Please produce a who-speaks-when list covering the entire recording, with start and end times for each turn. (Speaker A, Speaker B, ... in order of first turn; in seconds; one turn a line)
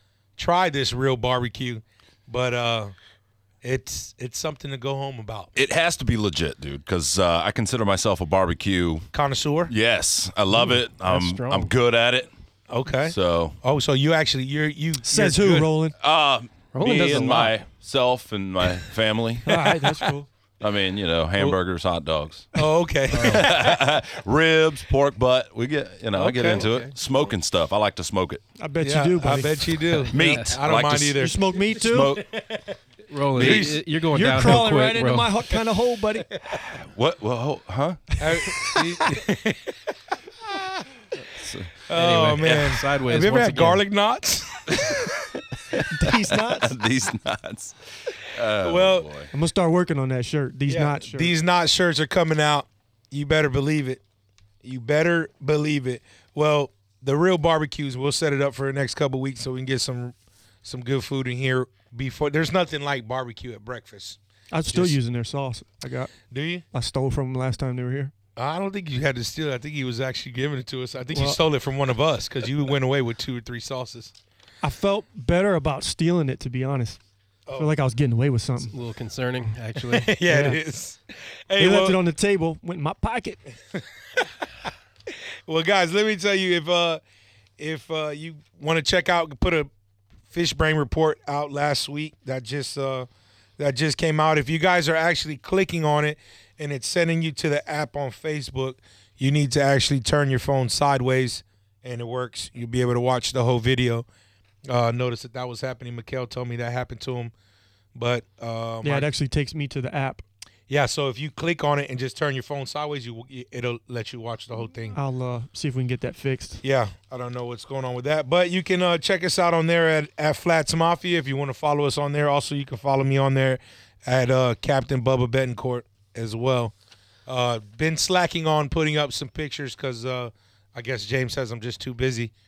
Speaker A: 0.4-3.0
Speaker A: 3.6-5.5
Speaker B: 5.6-9.1
Speaker A: 9.1-9.7
Speaker B: 9.7-12.3
Speaker C: 10.5-11.7
Speaker A: 12.7-15.7
Speaker B: 13.1-13.6
Speaker D: 15.0-15.9
Speaker B: 16.0-19.8
Speaker C: 16.7-17.6
Speaker D: 19.4-20.3
Speaker B: 20.6-22.5
Speaker A: 22.6-23.7
Speaker C: 23.1-23.5
Speaker B: 23.1-28.4
Speaker A: 26.1-26.7
Speaker C: 26.4-26.9
Speaker D: 28.6-29.8
Speaker A: 28.8-31.5
Speaker C: 29.9-30.6
Speaker B: 30.1-32.3
Speaker D: 31.2-32.1
Speaker A: 32.1-32.7
Speaker C: 33.1-35.3
Speaker A: 33.4-33.8
Speaker B: 33.4-33.6
Speaker D: 34.1-36.3
Speaker B: 36.6-38.2
Speaker A: 38.2-39.8
Speaker B: 41.4-41.7
Speaker A: 41.9-45.1
Speaker C: 41.9-43.8
Speaker D: 45.9-46.7
Speaker B: 46.1-49.3
Speaker A: 48.5-49.1
Speaker D: 49.3-51.3
Speaker A: 50.7-54.0
Speaker A: 54.6-64.2
Speaker D: 64.5-66.1
Speaker A: 66.3-66.7
Speaker D: 66.7-68.1
Speaker A: 68.4-74.1
Speaker D: 71.1-71.4
Speaker D: 74.6-77.0
Speaker A: 77.5-77.7
Speaker D: 77.6-78.7
Speaker C: 78.6-80.1
Speaker A: 79.8-82.0
Speaker D: 80.3-80.6
Speaker D: 81.6-83.4
Speaker A: 83.8-84.3
Speaker A: 85.1-87.0
Speaker A: 87.6-89.7
Speaker A: 90.3-104.1
Speaker A: 104.7-107.3
Speaker A: 108.0-109.1
Speaker D: 108.8-110.2
Speaker A: 110.7-115.0
Speaker D: 115.0-116.6
Speaker A: 116.6-126.7
Speaker A: 127.3-132.3